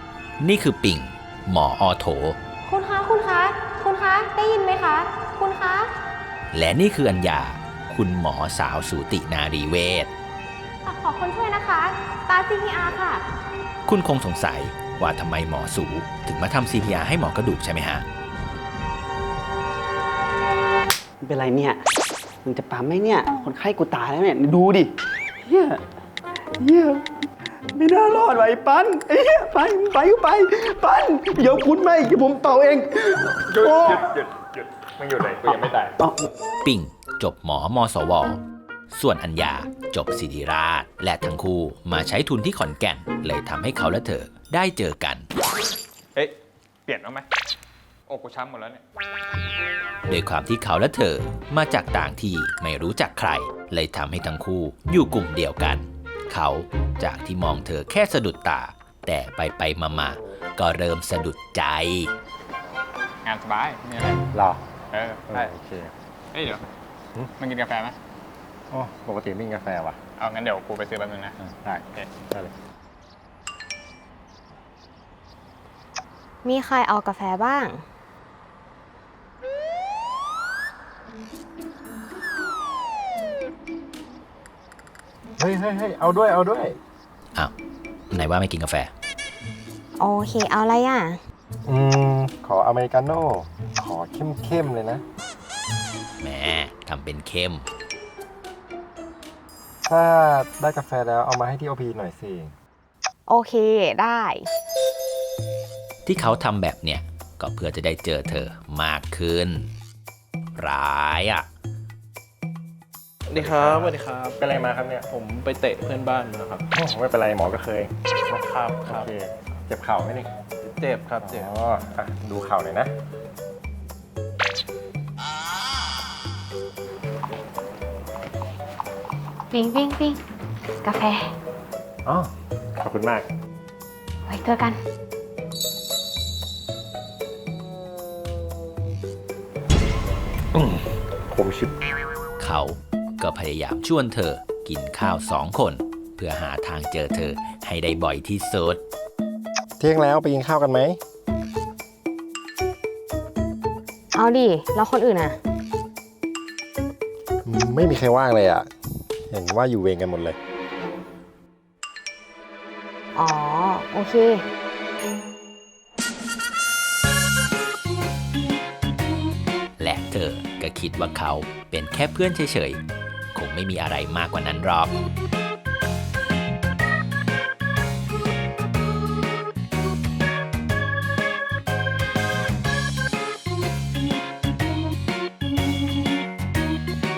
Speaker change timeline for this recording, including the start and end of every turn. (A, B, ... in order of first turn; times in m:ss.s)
0:00.4-0:02.4 A
0:02.6-0:05.9 B
0:06.5-0:10.1 A
0:10.8-0:13.2 B
0:13.9-0:18.0 A
0:21.2-0:21.8 C
0:22.4-0:25.8 C
0:26.6-0:27.1 C
0:27.7-0:34.0 C
0:33.5-0:34.3 D
0:35.0-0:35.9 D
0:36.6-0:38.4 A
0:38.9-0:45.3 A
0:46.9-0:47.3 D
0:48.1-0:48.8 D
0:50.1-1:02.1 A
1:03.2-1:04.2 D
1:04.3-1:04.7 E
1:04.9-1:05.5 D
1:05.3-1:05.9 E
1:06.3-1:06.6 D
1:07.4-1:08.0 D
1:08.7-1:10.0 E
1:10.2-1:11.4 D
1:11.5-1:12.5 E
1:16.4-1:17.8 B
1:25.4-1:26.8 E
1:28.1-1:28.9 A
1:30.0-1:31.2 B
1:31.7-1:35.0 E
1:36.2-1:37.7 A
1:39.9-1:42.5 E
1:43.3-1:44.5 B
1:46.0-1:49.7 A
1:50.6-1:51.5 A
1:53.3-1:54.4 F
1:53.4-1:55.1 E
1:55.1-1:56.6 F
1:56.7-1:57.9 E
1:58.3-1:59.1 F
1:58.8-2:00.3 E
2:00.7-2:01.5 F
2:01.2-2:02.9 E
2:09.5-2:10.2 B
2:10.8-2:11.3 B
2:12.0-2:13.3 E
2:14.3-2:14.8 B
2:20.5-2:21.7 E
2:22.4-2:28.8 A
2:29.8-2:31.0 E
2:34.1-2:35.4 B
2:37.4-2:40.4 E
2:43.2-2:44.5 B
2:49.8-2:52.8 A
2:53.4-2:55.0 A